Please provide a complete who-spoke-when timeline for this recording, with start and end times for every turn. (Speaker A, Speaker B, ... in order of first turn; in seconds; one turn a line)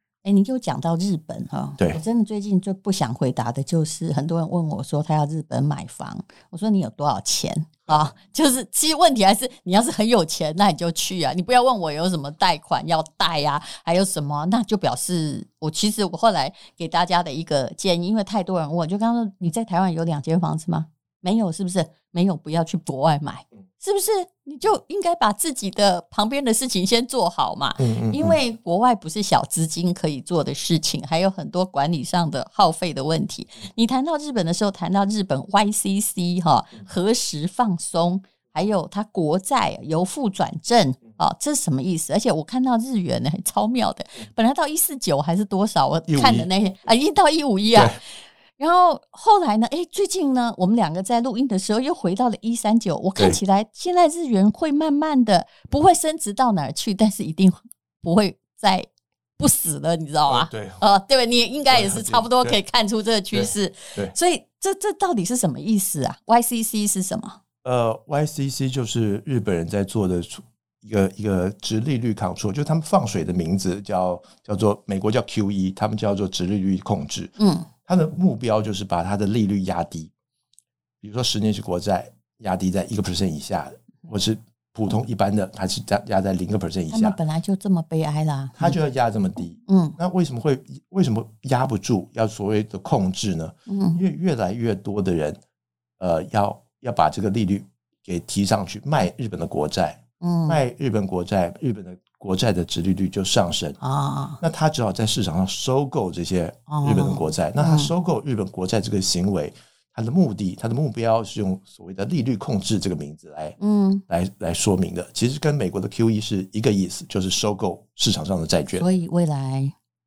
Speaker A: 0.2-48.0
Speaker B: 27.8-28.4
Speaker B: 46.1-46.5
Speaker B: 47.7-48.0
Speaker A: 48.6-67.4
Speaker B: 60.3-60.8
Speaker B: 61.7-62.6
Speaker B: 63.3-64.2
Speaker B: 67.6-80.1
Speaker A: 77.4-77.7
Speaker B: 81.0-87.2
Speaker A: 86.9-88.8
Speaker B: 88.6-95.4
Speaker A: 89.7-90.0
Speaker A: 93.7-94.0
Speaker B: 96.0-103.8
Speaker A: 100.2-100.6
Speaker A: 103.8-104.4
Speaker B: 104.4-113.6
Speaker A: 106.7-107.9
Speaker A: 113.6-114.0
Speaker B: 114.1-118.9
Speaker A: 118.7-119.7